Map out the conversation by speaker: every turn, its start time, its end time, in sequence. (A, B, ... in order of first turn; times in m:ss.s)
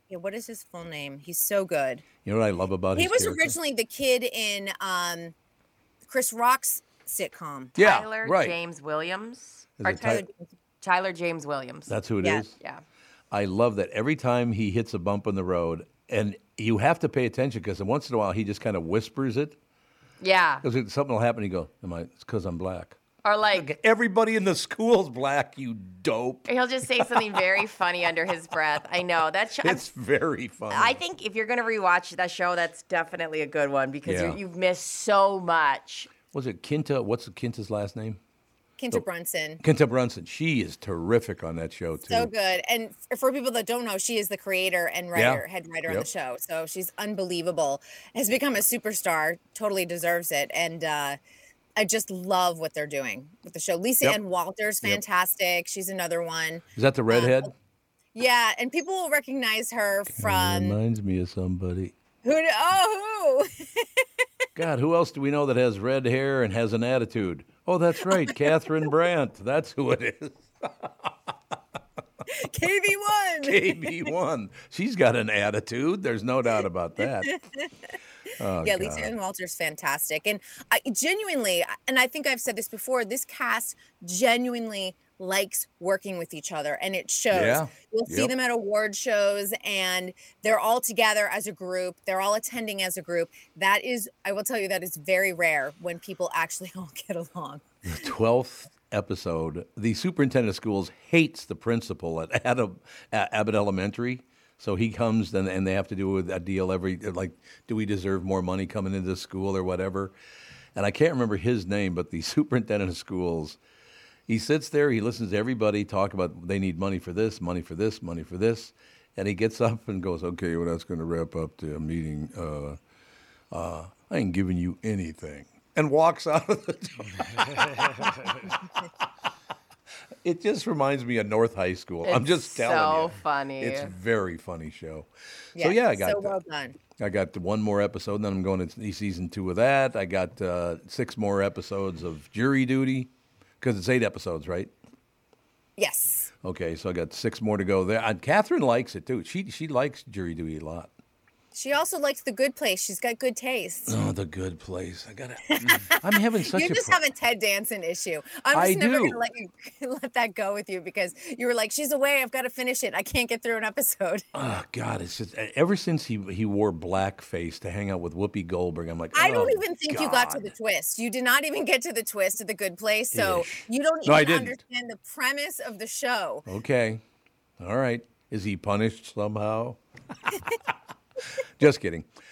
0:00.1-0:02.1 A
0:02.2-0:03.6 B
0:03.0-0:05.3 A
0:06.1-0:07.8 A
0:07.8-0:08.6 B
0:07.8-0:10.3 C
0:09.8-0:10.3 B
0:10.8-0:11.9 C
0:11.9-0:12.6 B
0:13.3-0:19.6 B
0:20.2-0:20.6 C
0:20.6-0:23.0 B
0:23.2-0:23.7 C
0:23.5-0:27.2 B
0:26.5-0:29.9 C
0:29.6-0:31.0 B
0:30.7-0:36.1 C
0:34.1-0:34.4 B
0:36.3-0:38.2 B
0:38.8-0:39.6 A
0:39.6-0:42.3 B
0:42.1-0:51.2 A
0:45.2-0:46.1 B
0:51.8-0:57.5 A
0:56.8-0:57.5 B
0:58.2-1:00.8 A
1:00.1-1:01.9 B
1:02.2-1:04.0 A
1:04.6-1:11.3 B
1:08.0-1:08.9 A
1:12.3-1:14.1 A
1:13.4-1:17.4 B
1:17.0-1:17.7 A
1:18.4-1:19.1 B
1:18.6-1:37.6 A
1:27.3-1:28.3 B
1:37.8-1:50.2 B
1:50.8-1:53.6 B
1:54.3-2:02.8 B
2:03.5-2:08.6 B
2:10.2-2:23.1 B
2:12.0-2:13.9 C
2:15.6-2:16.8 A
2:23.6-2:24.7 B
2:25.8-2:26.3 A
2:26.4-2:30.9 B
2:31.5-2:34.0 A
2:33.9-2:37.0 B
2:35.5-2:44.3 A
2:38.5-2:39.2 B
2:44.3-2:50.5 B
2:49.1-2:56.5 A
2:53.1-2:54.6 B
2:56.5-2:57.0 B
2:57.6-2:59.8 B
3:01.6-3:02.1 B